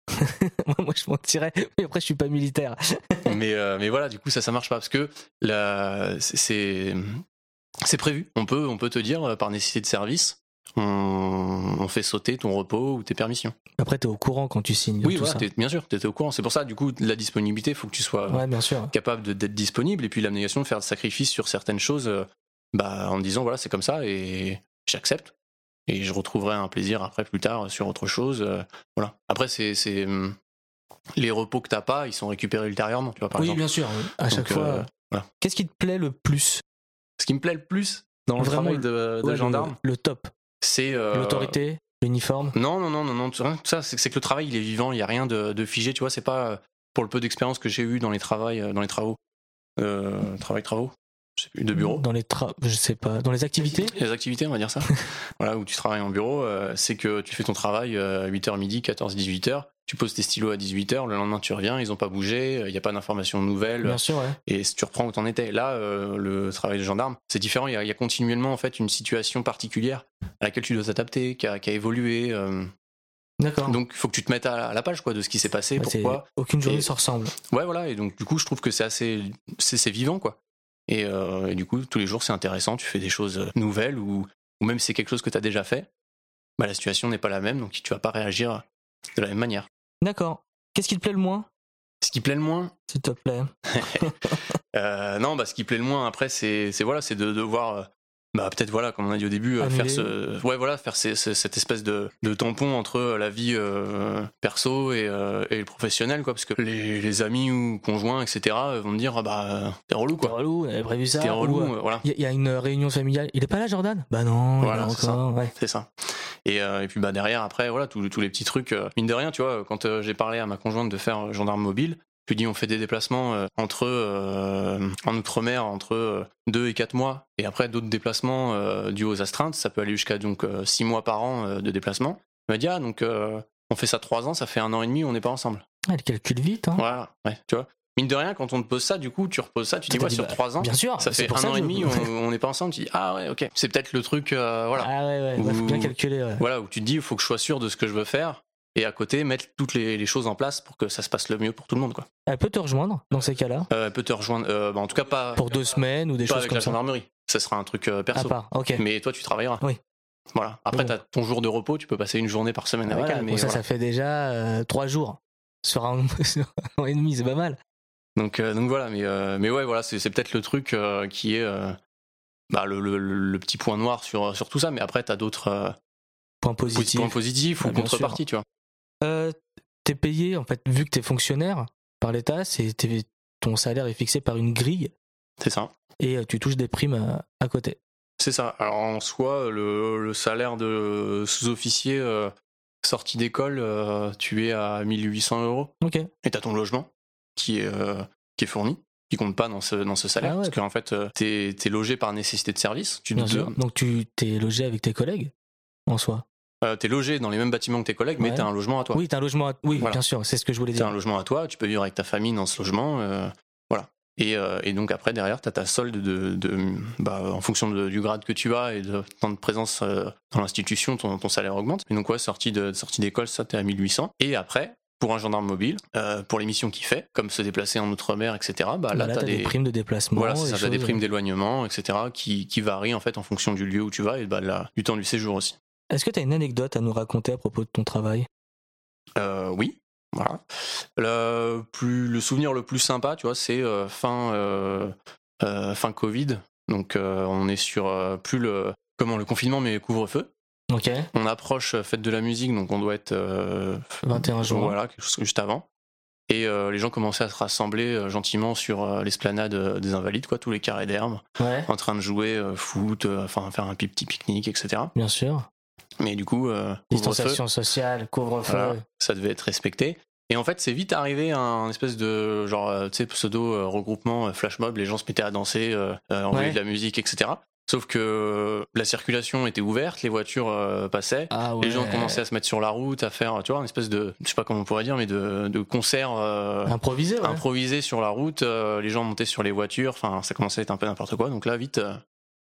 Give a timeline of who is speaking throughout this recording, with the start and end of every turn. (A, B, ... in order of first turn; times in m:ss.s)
0:00.1-0:03.3 A
0:03.2-0:07.2 B
0:07.8-0:13.5 B
0:13.8-0:15.5 A
0:15.0-0:25.3 B
0:18.3-0:18.9 A
0:25.9-0:30.3 B
0:31.2-0:33.6 B
0:33.4-0:34.9 A
0:34.2-0:35.2 B
0:35.4-0:36.6 A
0:37.2-0:39.8 B
0:38.4-0:40.3 A
0:40.6-0:41.6 B
0:41.1-0:42.5 A
0:42.5-0:49.2 B
0:49.8-0:52.0 B
0:51.7-0:53.9 A
0:53.6-1:12.7 B
1:03.8-1:04.4 A
1:13.4-1:13.8 A
1:13.6-1:16.9 B
1:15.8-1:17.3 A
1:17.5-1:20.4 B
1:20.9-1:25.9 B
1:26.6-1:29.7 B
1:30.0-1:31.5 A
1:32.0-1:32.7 B
1:32.9-1:34.4 A
1:33.8-1:34.0 B
1:34.7-1:50.3 B
1:39.6-1:40.1 A
1:50.2-1:55.5 A
1:51.2-1:52.0 B
1:54.6-1:55.9 B
1:56.4-2:15.6 B
2:15.9-2:16.8 A
2:16.8-2:32.1 B
2:19.9-2:22.1 A
2:24.8-2:26.4 A
2:32.3-2:33.7 A
2:33.7-2:35.4 B
2:35.4-2:36.8 A
2:36.2-2:39.6 B
2:38.1-2:38.8 A
2:40.3-2:43.6 B
2:40.7-2:41.0 A
2:42.8-2:47.6 A
2:48.2-2:51.8 B
2:52.5-2:55.7 B
2:56.4-2:58.2 A
2:56.7-2:58.4 B
2:59.0-3:04.9 A
3:05.4-3:05.7 B
3:06.0-3:07.8 A
3:08.2-3:12.3 B
3:12.8-3:15.7 B
3:15.8-3:16.1 A
3:16.2-3:23.5 B
3:20.2-3:20.6 A
3:23.2-3:25.3 A
3:25.9-3:26.2 A
3:26.6-3:29.0 B
3:28.2-3:30.9 A
3:30.7-3:49.6 B
3:48.9-3:51.0 A
3:50.1-3:55.6 B
3:55.9-3:58.3 A
3:59.2-4:10.3 B
4:10.7-4:11.1 A
4:11.1-4:15.6 B
4:14.0-4:14.8 A
4:16.3-4:24.9 B
4:21.4-4:21.7 A
4:24.9-4:25.5 A
4:26.0-4:27.4 B
4:26.9-4:28.8 A
4:28.4-4:52.0 B
4:36.3-4:36.6 A
4:41.3-4:42.2 A
4:46.6-4:47.4 A